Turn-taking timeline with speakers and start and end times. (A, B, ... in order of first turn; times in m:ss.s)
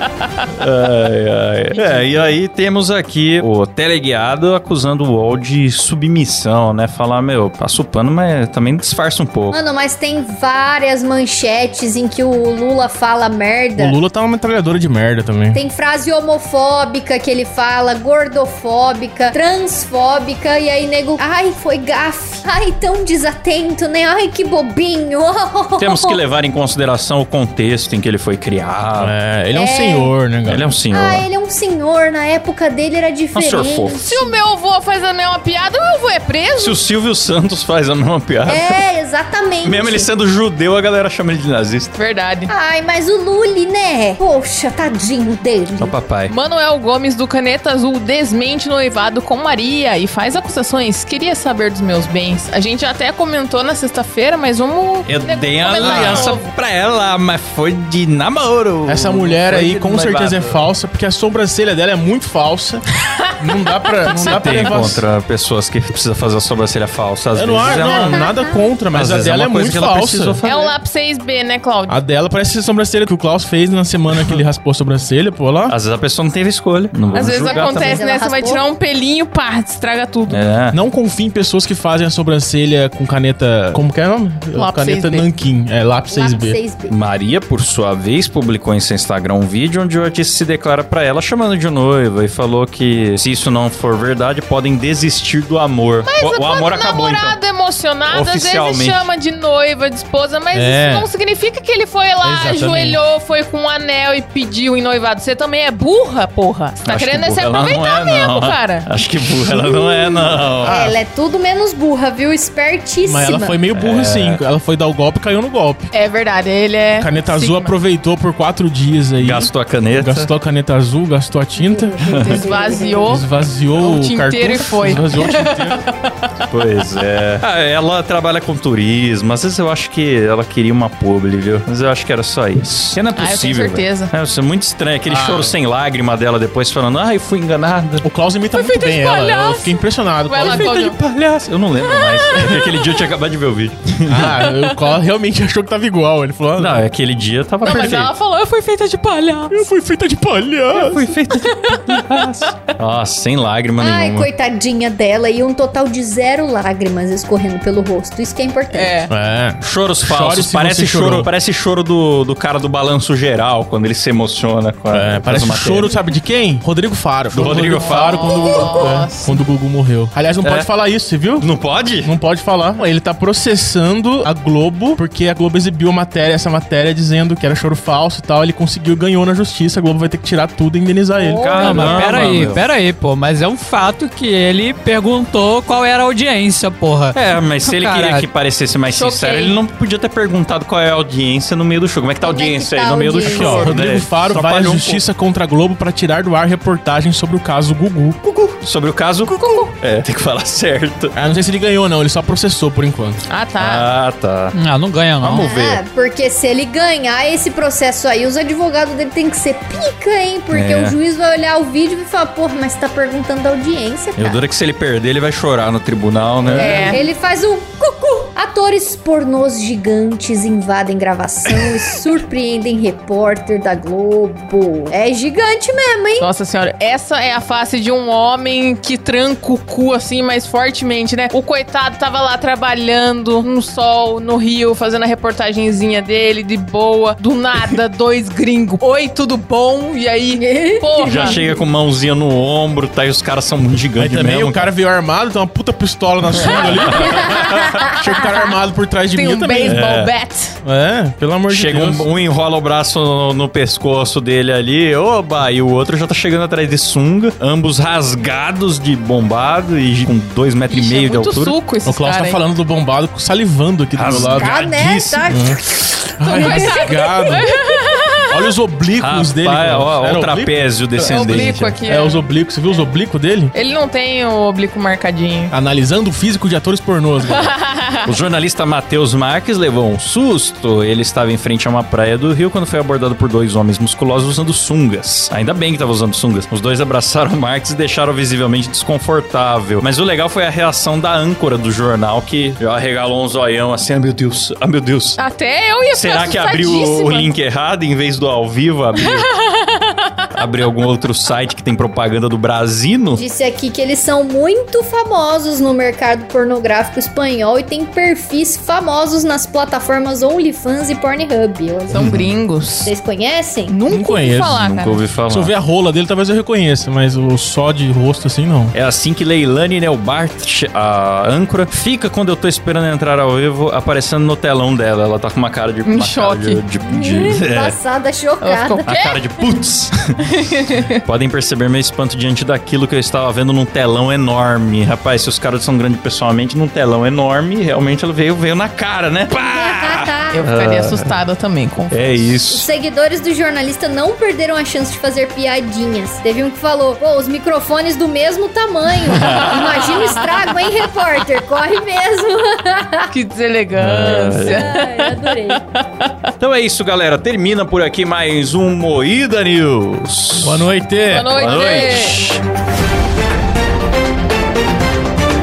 0:00.6-0:09.6 A
0:09.5-0:14.0 B
0:13.8-0:15.6 C
0:15.5-0:26.2 B
0:25.8-0:29.1 A
0:29.0-0:30.7 C
0:29.5-0:30.1 B
0:30.4-0:31.3 A
0:30.9-0:34.4 B
0:33.3-0:34.0 A
0:34.0-0:36.8 D
0:36.6-0:38.8 A
0:38.4-0:40.1 B
0:39.6-0:41.9 A
0:41.9-0:42.5 D
0:42.5-0:46.0 B
0:45.8-0:46.3 A
0:46.3-0:56.5 D
0:55.0-1:00.6 A
0:55.8-0:56.3 C
0:58.8-1:02.8 C
1:03.2-1:03.9 D
1:03.4-1:05.0 C
1:04.0-1:08.3 A
1:07.3-1:10.4 C
1:08.1-1:08.5 B
1:08.9-1:10.7 A
1:10.4-1:12.0 D
1:11.9-1:15.7 C
1:15.7-1:18.0 A
1:17.1-1:20.4 D
1:17.3-1:18.6 B
1:20.3-1:20.8 A
1:20.7-1:26.6 C
1:24.5-1:25.3 D
1:26.1-1:27.0 B
1:26.9-1:37.4 A
1:36.0-1:48.9 D
1:38.1-1:39.1 A
1:40.5-1:41.1 C
1:42.2-1:43.0 E
1:46.8-1:50.8 A
1:49.5-1:53.6 B
1:50.6-1:50.9 C
1:53.0-1:55.9 C
1:53.7-1:54.4 A
1:55.9-1:57.7 D
1:57.0-2:02.5 C
1:59.2-2:00.3 A
2:01.6-2:03.2 B
2:02.0-2:05.8 D
2:02.0-2:02.4 A
2:03.0-2:05.8 C
2:06.5-2:18.0 A
2:13.1-2:14.1 D
2:15.1-2:15.6 C
2:18.0-2:20.7 C
2:18.5-2:21.0 D
2:20.4-2:24.4 A
2:21.8-2:22.6 D
2:24.1-2:26.8 C
2:26.6-2:28.1 A
2:27.6-2:29.7 D
2:29.5-2:31.0 C
2:30.7-2:34.3 A
2:31.6-2:32.0 D
2:33.8-2:39.0 B
2:38.7-2:39.1 D
2:39.1-2:41.3 C
2:39.6-2:45.9 A
2:44.9-3:02.1 C
2:47.3-2:48.4 A
2:47.7-2:49.4 D
2:48.3-2:48.8 B
2:50.4-2:50.7 A
2:51.4-2:52.1 A
3:01.2-3:02.1 B
3:01.3-3:02.7 A
3:01.5-3:08.2 E
3:07.1-3:15.0 A
3:08.9-3:09.6 D
3:12.2-3:13.8 B
3:13.2-3:18.2 C
3:18.2-3:21.1 A
3:19.3-3:19.7 D
3:21.1-3:23.2 C
3:23.3-3:23.9 D
3:23.6-3:24.5 A
3:24.5-3:25.5 E
3:25.2-3:25.8 A
3:25.4-3:34.4 B
3:30.5-3:31.0 A
3:34.2-3:37.0 A
3:36.5-3:46.3 B
3:36.5-3:37.1 D
3:46.2-4:01.4 D
4:00.3-4:01.7 B
4:01.0-4:04.6 A
4:04.0-4:09.9 C
4:06.4-4:07.8 A
4:07.4-4:07.7 B
4:09.1-4:10.6 D
4:09.6-4:10.1 A
4:10.6-4:12.1 C
4:11.5-4:21.6 A
4:20.7-4:22.4 D
4:21.8-4:24.5 C
4:24.0-4:25.4 A
4:24.3-4:27.4 B
4:25.2-4:25.6 C
4:26.2-4:27.5 C
4:26.3-4:28.1 D
4:28.3-4:33.5 C
4:29.0-4:31.8 A
4:31.0-4:32.3 D
4:33.5-4:35.5 D
4:35.5-4:37.6 C
4:37.2-4:38.1 D
4:38.0-4:55.2 A
4:55.2-4:57.3 D
4:55.9-4:59.3 A
4:59.0-5:00.1 D
5:00.3-5:03.2 A
5:03.1-5:12.2 B
5:11.9-5:12.9 D
5:11.9-5:12.2 A
5:12.8-5:13.8 B
5:13.7-5:15.0 D
5:13.9-5:14.6 C
5:14.5-5:15.5 A
5:15.3-5:18.7 C
5:18.7-5:27.8 A
5:25.8-5:26.6 D
5:26.8-5:28.9 B
5:28.4-5:29.2 D
5:28.8-5:30.1 A
5:30.3-5:31.0 D
5:31.0-5:41.1 A
5:39.3-5:40.4 B
5:40.3-5:42.4 D
5:41.9-5:42.6 A
5:42.5-5:53.1 B
5:49.1-5:49.6 A
5:49.2-5:50.6 D
5:53.1-5:56.1 D
5:53.8-5:54.7 A
5:54.4-5:55.6 B
5:56.4-6:02.4 A
6:00.4-6:01.3 C
6:01.1-6:02.2 D